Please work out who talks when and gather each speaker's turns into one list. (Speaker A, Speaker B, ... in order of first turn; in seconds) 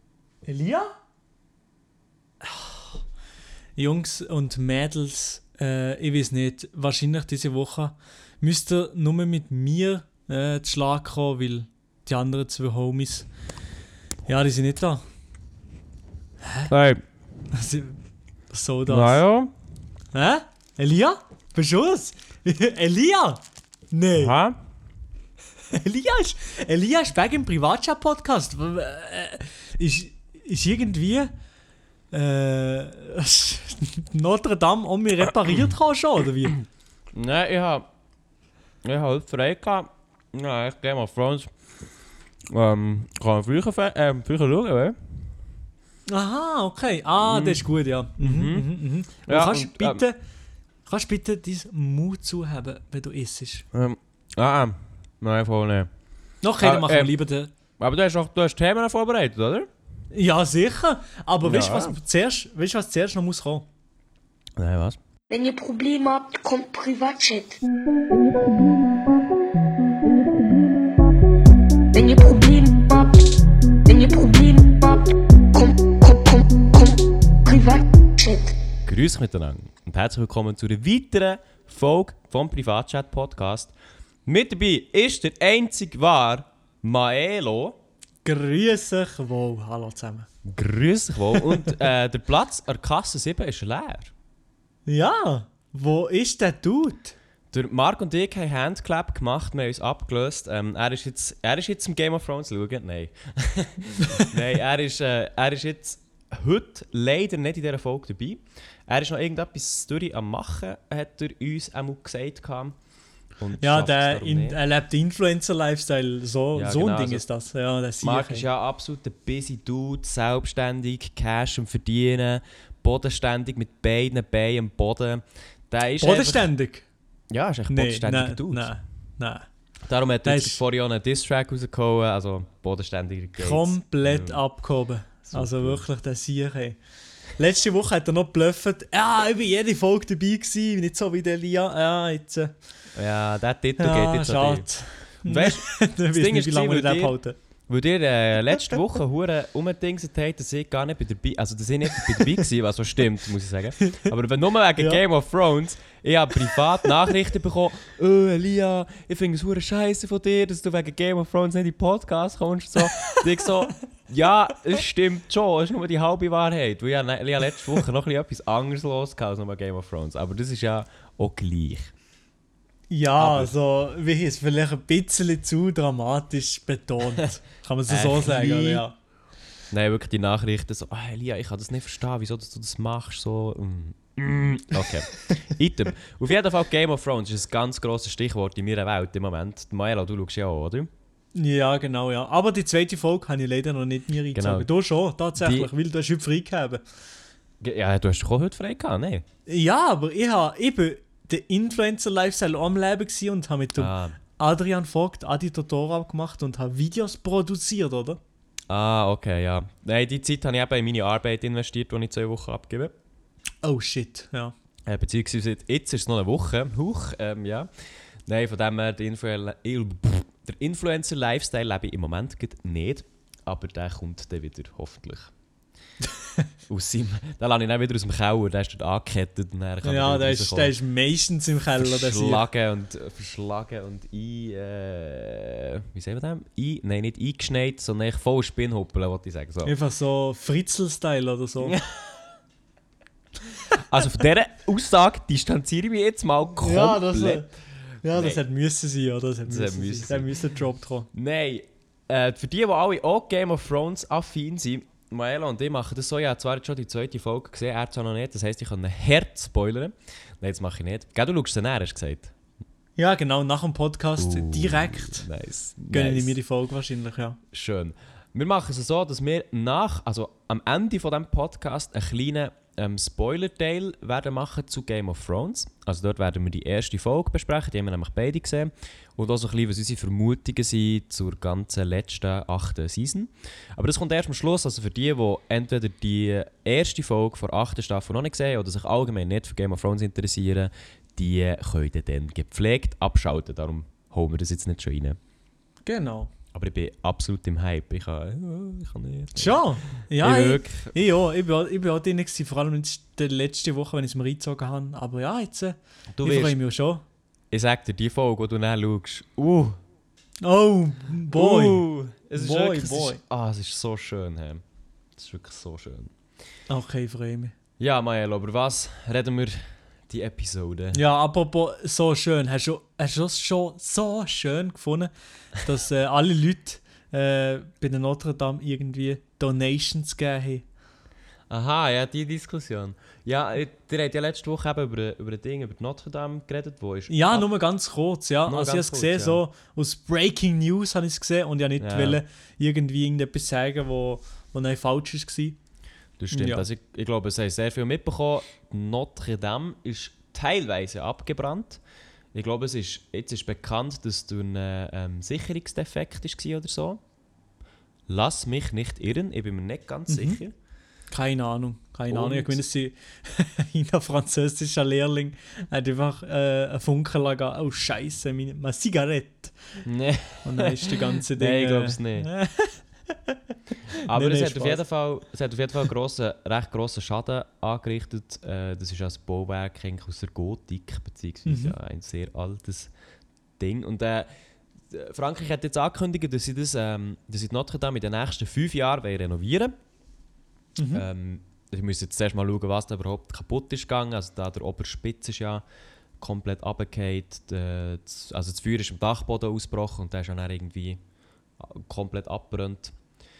Speaker A: 0.4-0.9, 2.4-3.0, 3.8-13.3, 14.3-15.1, 16.4-16.7, 17.5-19.2, 20.1-24.3, 25.7-31.3, 32.1-36.6, 46.1-50.2, 50.9-53.6, 56.4-57.5, 60.1-63.7, 88.2-90.3, 94.9-97.1, 113.6-118.4, 126.0-126.9, 127.7-129.5, 130.2-130.6, 133.4-136.8, 137.3-142.5, 143.8-147.4, 172.9-178.9, 191.3-196.8, 199.5-208.2, 213.6-214.5, 229.8-232.4, 239.6-241.8, 246.6-247.5, 248.0-251.1, 263.0-265.3, 265.9-267.4, 295.9-296.3, 299.4-307.0, 310.4-313.2, 316.7-317.5, 320.9-330.6, 337.1-345.6, 346.3-346.6, 360.1-360.4, 361.1-369.8, 370.4-372.8, 374.1-374.8, 381.4-381.8, 390.8-391.0
Speaker B: 16.7-17.0, 18.9-19.5, 24.1-24.6, 37.1-37.9, 38.8-41.5, 42.5-45.3, 47.2-47.6, 48.2-50.0, 53.7-55.9, 56.6-57.1, 57.8-59.7, 61.4-62.0, 64.6-65.0, 78.8-83.7, 84.2-87.8, 90.4-94.1, 97.5-112.8, 113.4-114.6, 116.5-117.2, 118.0-126.5, 127.3-128.7, 129.8-134.4, 135.2-135.8, 142.9-147.2, 147.7-171.9, 173.2-173.5, 177.9-178.8, 179.7-190.9, 194.3-194.7, 195.4-195.7, 197.6-199.2, 203.8-204.2, 208.7-212.9, 214.8-225.3, 226.7-230.7, 231.8-239.7, 241.6-242.2, 243.7-247.5, 248.1-248.4, 249.4-250.3, 251.1-262.3, 264.2-266.4, 267.5-295.2, 296.5-300.9, 306.1-306.6, 307.5-309.8, 311.3-314.6, 315.1-316.1, 317.8-321.0, 331.5-337.4, 338.4-339.4, 341.8-342.2, 346.2-351.8, 352.3-357.0, 358.1-360.5, 362.1-362.6, 369.8-372.3, 374.1-382.9, 383.6-384.3, 384.9-389.7, 390.9-395.6, 396.2-401.0, 401.6-402.9
Speaker C: 65.3-67.6, 71.9-73.2, 73.8-78.5